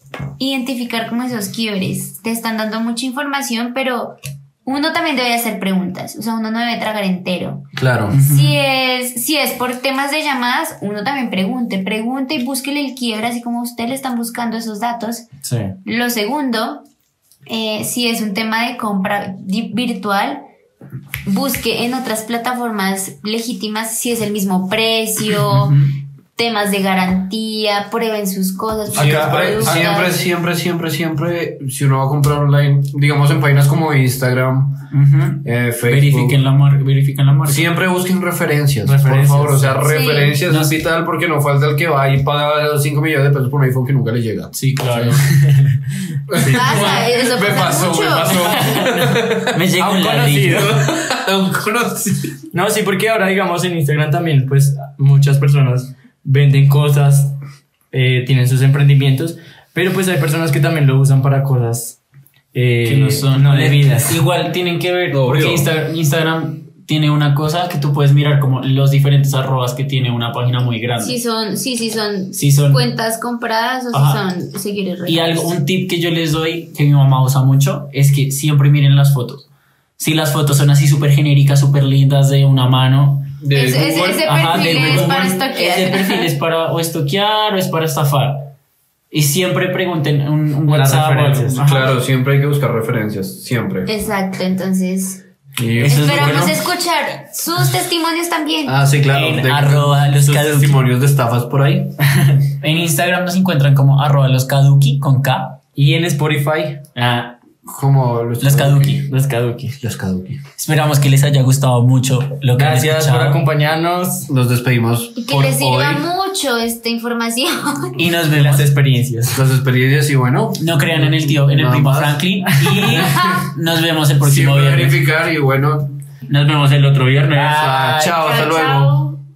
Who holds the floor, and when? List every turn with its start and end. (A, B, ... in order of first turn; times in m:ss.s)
0:00.4-0:07.7 A
0:07.7-0:08.2 B
0:08.1-0:08.6 C
0:08.2-0:15.2 A
0:15.4-0:15.7 D
0:15.8-0:16.8 A
0:17.5-0:20.4 A
0:21.2-0:30.2 A
0:25.4-0:26.0 C
0:28.9-0:34.9 B
0:29.0-0:29.7 D
0:34.9-0:37.7 C
0:35.4-0:36.4 B
0:37.4-0:45.2 B
0:38.8-0:39.9 D
0:39.9-0:40.4 A
0:40.5-0:40.8 C
0:44.5-0:45.3 C
0:46.3-0:49.6 B
0:46.4-0:46.9 D
0:46.4-0:48.6 A
0:48.5-0:50.8 C
0:48.8-0:49.2 D
0:49.8-0:50.8 D
0:50.5-0:52.4 B
0:52.5-0:57.4 D
0:57.9-1:02.0 D
1:02.5-1:04.2 D
1:02.8-1:11.2 C
1:05.1-1:05.7 B
1:11.0-1:15.5 A
1:12.3-1:12.8 C
1:13.9-1:14.2 C
1:15.1-1:19.4 C
1:20.0-1:23.4 C
1:23.4-1:25.1 B
1:23.5-1:26.3 A
1:24.2-1:28.5 C
1:29.1-1:32.0 C
1:30.7-1:31.6 D
1:31.5-1:33.9 B
1:33.9-1:35.2 A
1:35.6-1:36.6 B
1:35.8-1:36.6 C
1:35.8-1:38.8 A
1:38.6-1:42.0 B
1:39.0-1:40.8 C
1:42.5-1:45.6 C
1:45.7-1:46.8 D
1:46.9-1:47.4 C
1:47.6-1:49.1 B
1:48.4-1:49.1 C
1:49.1-1:49.8 D
1:49.8-1:50.4 B
1:50.6-1:53.4 C
1:52.5-1:54.3 D
1:54.3-1:56.1 B
1:55.2-1:58.0 A
1:58.0-1:58.7 C
1:58.3-1:59.4 D
1:59.3-2:02.2 B
2:00.6-2:05.0 C
2:02.6-2:03.1 D
2:03.1-2:03.4 A
2:04.2-2:05.9 B
2:06.2-2:08.2 C
2:07.3-2:08.9 B
2:08.0-2:09.2 A